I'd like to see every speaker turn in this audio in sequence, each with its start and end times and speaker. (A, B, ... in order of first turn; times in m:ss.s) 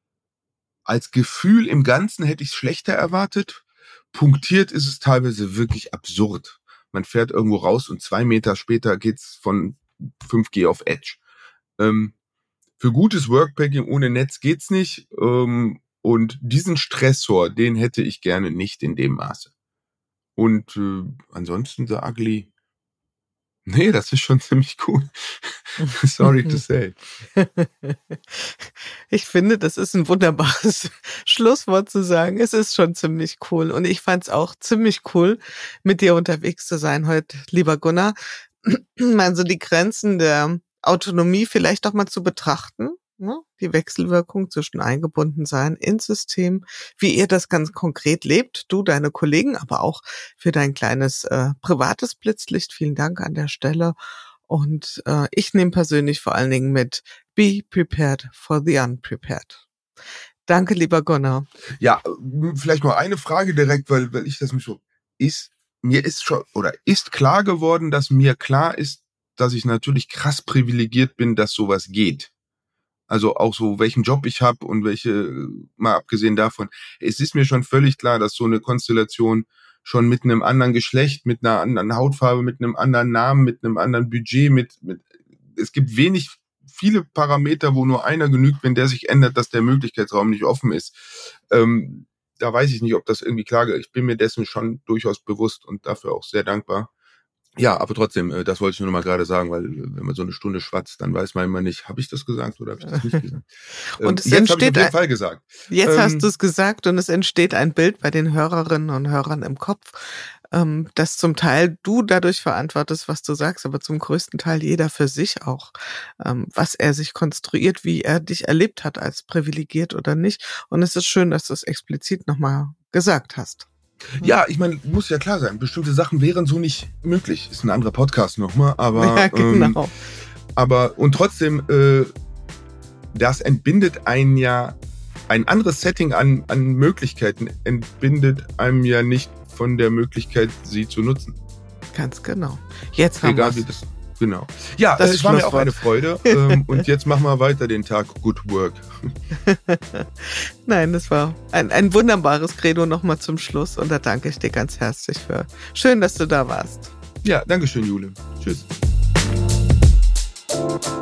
0:00.8-0:11.2 A
0:11.8-0:12.1 A
0:12.8-0:19.5 A
0:20.4-0:22.5 A
0:23.6-0:27.0 A
0:25.8-0:26.6 B
0:27.4-0:53.9 B
0:54.5-0:59.6 B
1:00.5-1:01.5 B
1:01.8-1:12.3 A
1:13.1-1:36.9 A
1:37.6-1:43.4 A
1:42.9-1:43.2 B
1:44.0-1:46.3 A
1:44.0-1:44.9 B
1:45.7-2:03.7 B
2:04.2-2:09.8 A
2:08.9-2:09.9 B
2:10.6-2:12.1 A
2:13.1-2:21.4 A
2:21.9-2:23.6 B
2:23.2-2:29.1 A
2:25.0-2:26.8 B
2:29.3-2:36.9 B
2:37.2-2:38.7 A